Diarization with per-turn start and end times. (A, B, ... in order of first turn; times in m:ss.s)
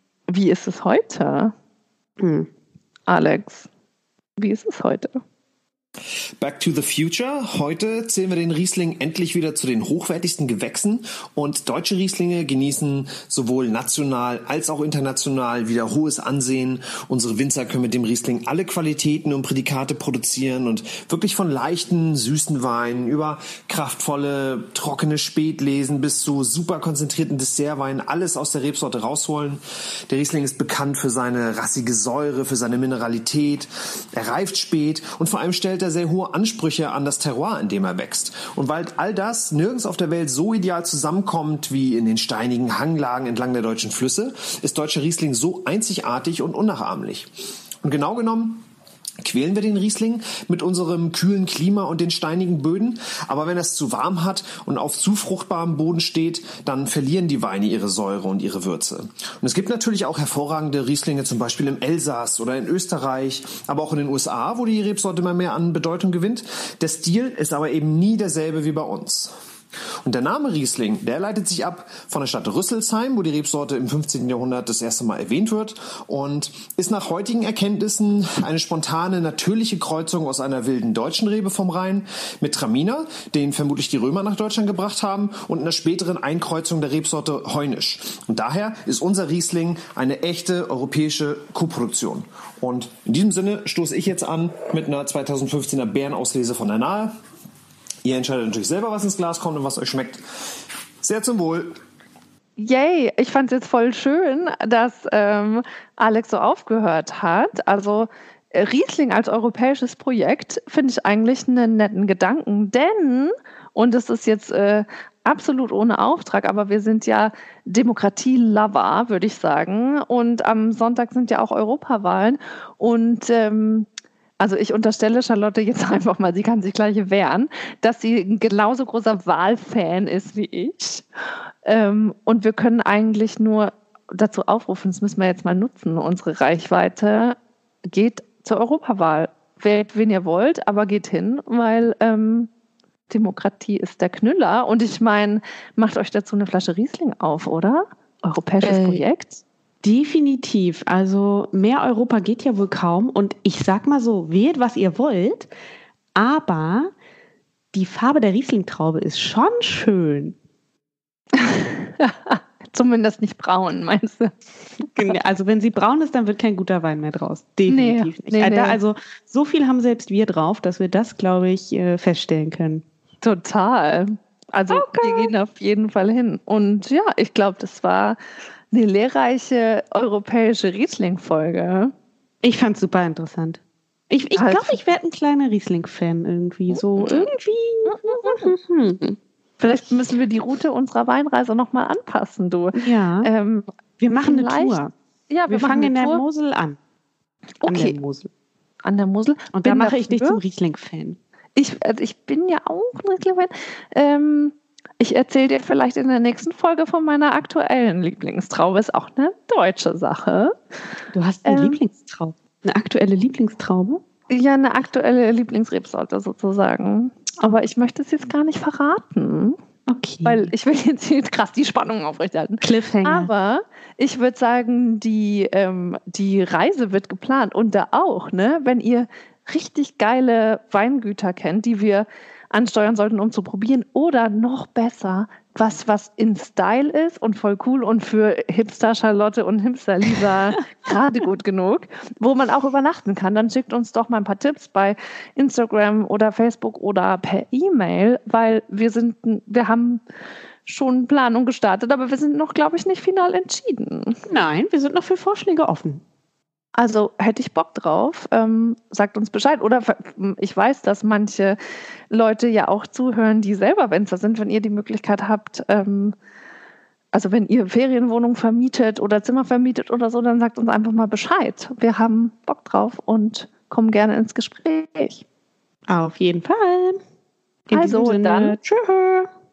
0:00.3-0:01.5 A
0:02.2-0:02.5 B
0:03.1-0:03.7 A
0:04.4-0:05.2 A
0:06.4-0:47.3 C
0:47.8-0:48.6 C
0:49.2-1:09.3 C
1:10.0-1:37.1 C
1:38.0-1:41.8 C
1:42.6-2:03.9 A
2:04.4-2:11.0 A
2:11.6-2:22.5 A
2:23.1-2:29.4 A
2:28.6-2:29.0 B
2:29.8-2:35.5 B
2:36.2-2:36.9 B
2:37.7-2:40.4 B
2:41.3-2:44.3 A
2:45.0-2:52.8 B
2:47.7-2:48.8 A
2:53.2-2:58.2 A
2:54.7-2:55.3 B
2:58.7-3:01.9 A
3:02.4-3:09.2 B
3:04.4-3:04.8 A
3:06.7-3:07.3 A
3:07.9-3:08.5 A
3:09.6-3:13.7 A
3:12.8-3:13.3 B
3:14.0-3:14.9 B
3:14.2-3:14.8 A
3:15.3-3:16.2 A
3:15.5-3:16.8 B
3:17.6-3:18.0 A
3:17.7-3:18.3 B
3:18.8-3:20.4 A
3:19.5-3:21.2 B
3:21.6-3:30.5 A
3:31.1-3:34.0 B
3:31.5-3:31.8 A
3:34.3-3:39.6 A
3:39.9-3:40.5 B
3:40.2-4:10.0 A
3:42.6-3:43.3 B
4:10.7-4:14.2 A
4:14.3-4:16.0 B
4:16.8-4:21.6 A
4:22.1-4:26.2 A
4:27.1-4:35.2 A
4:35.9-4:37.0 B
4:37.7-4:39.3 B
4:37.7-4:38.6 A